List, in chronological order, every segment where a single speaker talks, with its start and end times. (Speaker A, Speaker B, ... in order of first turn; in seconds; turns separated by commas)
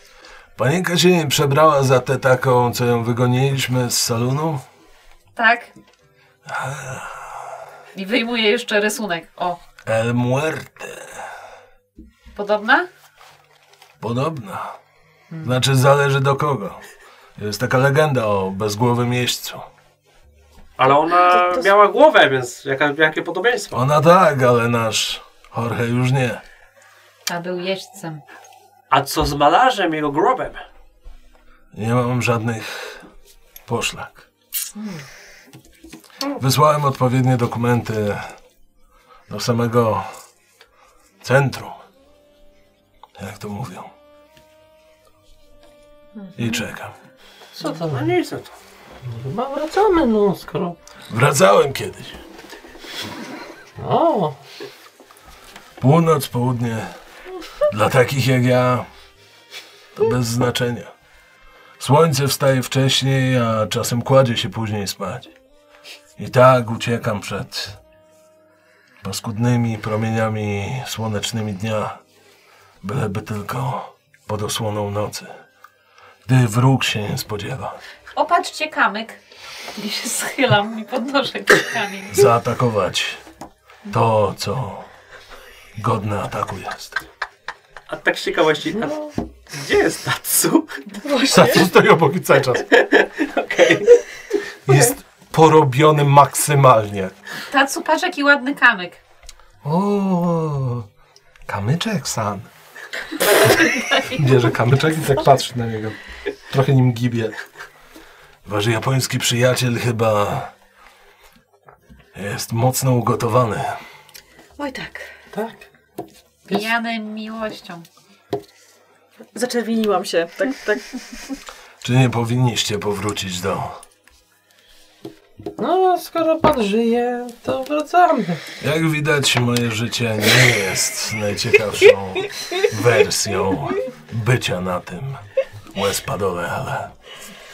Speaker A: 0.6-4.6, Speaker B: 5.3-5.7, Speaker A: 6.5-7.4, Speaker B: 7.9-9.6, Speaker A: 9.8-11.2, Speaker B: 12.3-12.9, Speaker A: 14.0-14.8, Speaker A: 15.4-16.8, Speaker A: 17.4-19.6, Speaker C: 20.8-23.8, Speaker D: 21.3-21.7, Speaker A: 23.7-26.4, Speaker B: 27.2-28.2, Speaker C: 28.9-30.6, Speaker A: 31.7-33.0, Speaker A: 33.7-34.2, Speaker D: 34.7-35.0, Speaker A: 36.4-38.3, Speaker A: 39.3-40.0, Speaker A: 41.2-41.8, Speaker A: 43.2-43.9, Speaker D: 46.2-46.6, Speaker A: 46.4-46.9, Speaker E: 47.5-48.1, Speaker C: 47.6-48.5, Speaker E: 49.0-50.8, Speaker A: 51.1-52.2, Speaker E: 53.8-54.4, Speaker A: 55.8-56.9, Speaker A: 57.6-58.9, Speaker A: 59.9-60.9, Speaker A: 61.8-65.3, Speaker A: 66.2-67.8, Speaker A: 69.0-72.0, Speaker A: 72.8-75.3, Speaker A: 76.2-77.8, Speaker B: 78.1-79.2, Speaker B: 79.8-82.3, Speaker A: 82.1-83.2, Speaker A: 83.9-84.9, Speaker A: 85.8-87.0, Speaker C: 87.9-90.8, Speaker D: 91.0-91.7, Speaker A: 91.3-92.7, Speaker C: 92.7-94.0, Speaker A: 94.7-97.1, Speaker B: 97.5-99.0, Speaker A: 99.6-100.8, Speaker A: 101.5-102.5, Speaker A: 103.5-106.0, Speaker B: 103.7-104.1, Speaker A: 106.5-107.3, Speaker A: 108.4-110.5, Speaker A: 112.1-113.8, Speaker D: 114.6-115.1, Speaker E: 115.3-115.6, Speaker B: 116.5-117.8, Speaker D: 119.3-121.2, Speaker A: 121.8-123.8, Speaker E: 125.6-128.4, Speaker A: 128.6-136.9